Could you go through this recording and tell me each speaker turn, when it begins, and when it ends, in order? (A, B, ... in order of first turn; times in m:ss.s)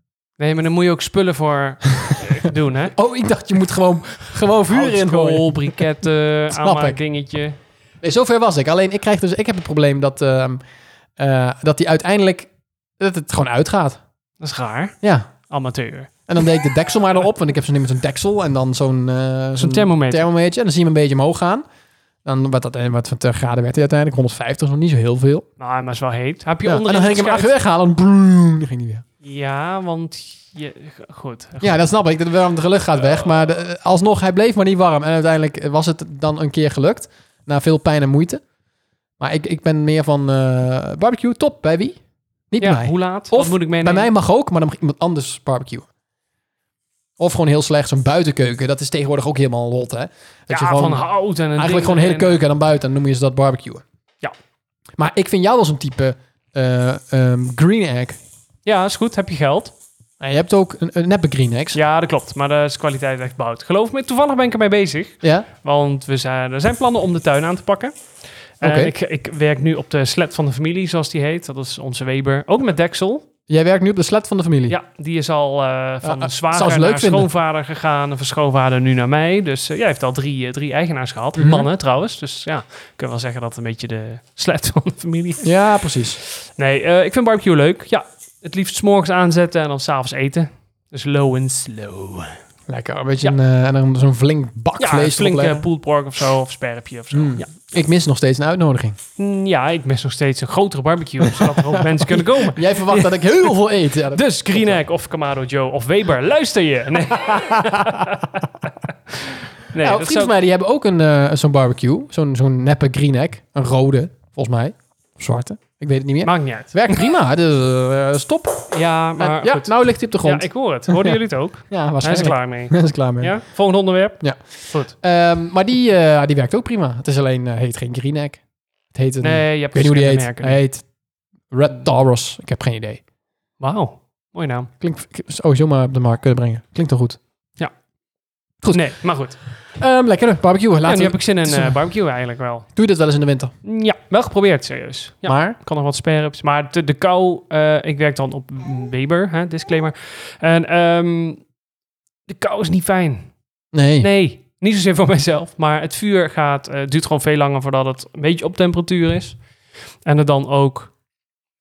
0:00.4-0:02.9 A
0:02.9-0:05.8 B
0:04.7-0:07.6 A
0:06.5-0:07.0 B
0:08.0-0:10.6 B
0:11.2-0:14.0 B
0:14.4-0:14.9 A
0:15.0-0:15.3 B
0:15.5-0:16.1 A
0:16.3-0:21.6 B
0:19.6-0:20.2 A
0:22.2-0:25.4 B
0:25.6-0:27.5 A
0:26.6-0:29.0 B
0:29.2-0:31.7 A
0:31.6-0:38.4 B
0:39.2-0:42.0 B
0:42.5-0:45.9 B
0:42.6-0:44.1 A
0:47.2-0:53.8 B
0:50.5-0:52.4 A
0:55.0-0:58.2 B
0:58.6-0:59.7 A
1:00.2-1:01.8 B
1:01.7-1:07.9 A
1:08.6-1:13.3 A
1:08.6-1:08.9 B
1:13.5-1:14.8 B
1:14.7-1:25.5 A
1:16.0-1:17.3 B
1:21.4-1:21.7 B
1:25.4-1:26.2 B
1:26.2-1:32.4 A
1:32.7-1:35.6 B
1:34.8-1:37.5 A
1:37.1-1:39.0 B
1:39.2-1:43.5 A
1:41.2-1:44.8 B
1:44.1-1:48.5 A
1:47.3-1:48.1 B
1:49.1-1:50.3 A
1:49.8-2:01.2 B
1:56.2-1:57.0 A
1:58.7-1:59.7 A
2:00.2-2:04.9 A
2:01.7-2:03.3 B
2:04.2-2:08.4 B
2:08.9-2:10.8 B
2:09.2-2:10.6 A
2:11.5-2:13.0 B
2:13.6-2:14.7 A
2:14.8-2:17.2 B
2:18.7-2:19.4 A
2:19.8-2:21.8 B
2:20.8-2:22.7 A
2:22.8-2:23.5 B
2:23.6-2:31.4 A
2:25.2-2:25.6 B
2:32.3-2:33.3 A
2:33.7-2:34.1 B
2:34.0-2:39.4 A
2:40.0-2:40.9 A